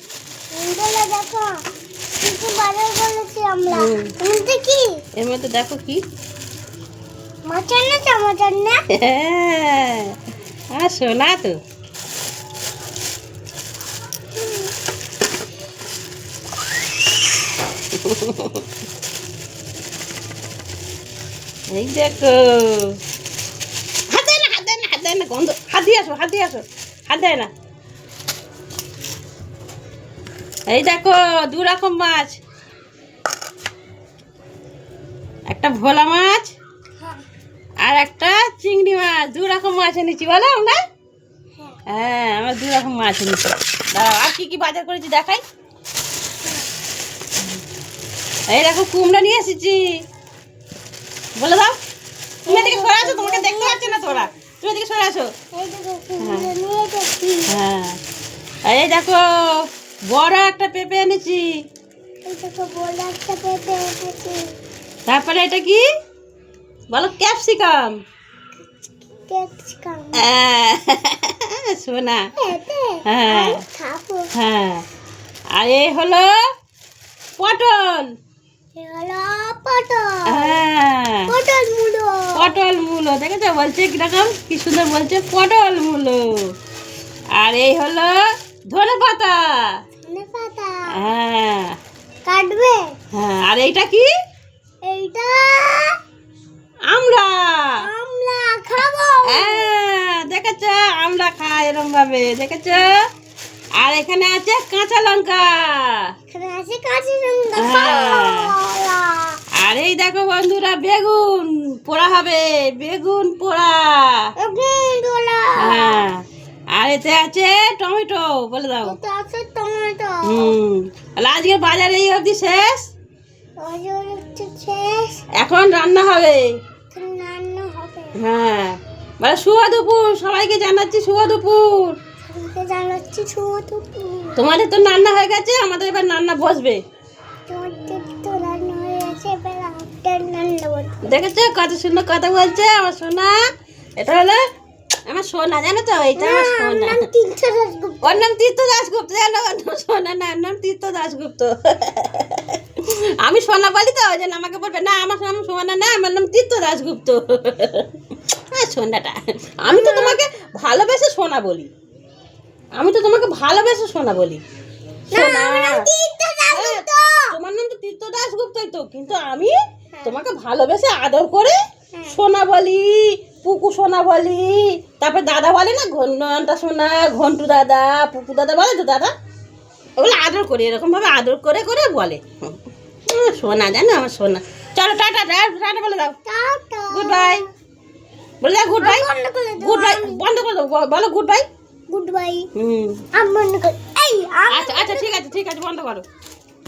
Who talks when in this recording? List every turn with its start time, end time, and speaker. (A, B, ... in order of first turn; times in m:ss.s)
0:00.5-0:01.6 A
0:02.2-0:05.0 A
0:03.7-0:04.1 B
0:05.2-0:06.0 B
0:07.5-0:08.8 A
0:08.9-0:10.1 B
0:10.7-0:11.6 B
0:14.4-0:14.7 A
0:17.9-0:18.6 B
0:21.7-0:23.0 B
0:24.1-0:27.5 B
0:30.7-0:32.4 B
0:35.5-0:36.5 B
0:37.8-0:40.8 B
0:41.9-0:45.4 B
0:48.5-0:50.0 B
0:51.4-0:51.8 B
0:52.4-0:54.3 A
0:52.5-0:55.3 B
0:55.5-0:57.5 A
0:56.2-0:56.5 B
0:57.5-0:58.0 B
0:58.7-1:01.5 B
1:02.2-1:04.4 A
1:05.1-1:05.8 B
1:06.9-1:08.0 B
1:09.0-1:10.2 A
1:10.2-1:12.3 B
1:12.4-1:14.3 A
1:13.0-1:13.6 B
1:14.3-1:14.8 B
1:15.5-1:16.3 B
1:17.4-1:18.1 B
1:18.8-1:20.6 A
1:20.3-1:21.3 B
1:21.3-1:22.4 A
1:22.3-1:26.3 B
1:27.3-1:29.4 B
1:30.0-1:30.9 A
1:30.9-1:31.8 B
1:32.3-1:32.8 A
1:33.1-1:34.1 B
1:34.8-1:35.9 A
1:36.9-1:37.8 B
1:37.8-1:39.7 A
1:39.3-1:43.0 B
1:43.8-1:46.0 B
1:46.3-1:49.4 A
1:47.6-1:48.5 B
1:49.6-1:54.2 B
1:54.4-1:56.0 A
1:55.6-1:56.2 B
1:56.7-1:59.0 B
1:58.8-2:00.6 A
2:00.2-2:02.9 B
2:03.6-2:05.2 A
2:05.4-2:06.4 B
2:06.9-2:08.1 A
2:08.2-2:12.0 B
2:12.2-2:14.4 A
2:14.4-2:16.8 B
2:17.5-2:20.9 A
2:21.1-2:23.4 B
2:24.0-2:24.4 B
2:25.1-2:27.0 B
2:26.2-2:28.2 A
2:28.0-2:37.8 B
2:38.5-2:41.7 B
2:39.7-2:40.2 A
2:42.8-2:44.4 B
2:45.1-2:47.3 A
2:45.1-2:45.9 B
2:46.5-2:49.5 B
2:49.9-2:50.2 A
2:50.0-2:51.6 B
2:52.1-2:59.1 B
3:00.0-3:02.5 B
3:03.1-3:06.2 B
3:06.2-3:07.4 A
3:06.9-3:07.4 B
3:08.4-3:09.1 B
3:08.8-3:10.2 A
3:09.6-3:11.4 B
3:11.9-3:12.5 A
3:12.6-3:13.0 B
3:13.1-3:15.2 A
3:14.5-3:16.0 B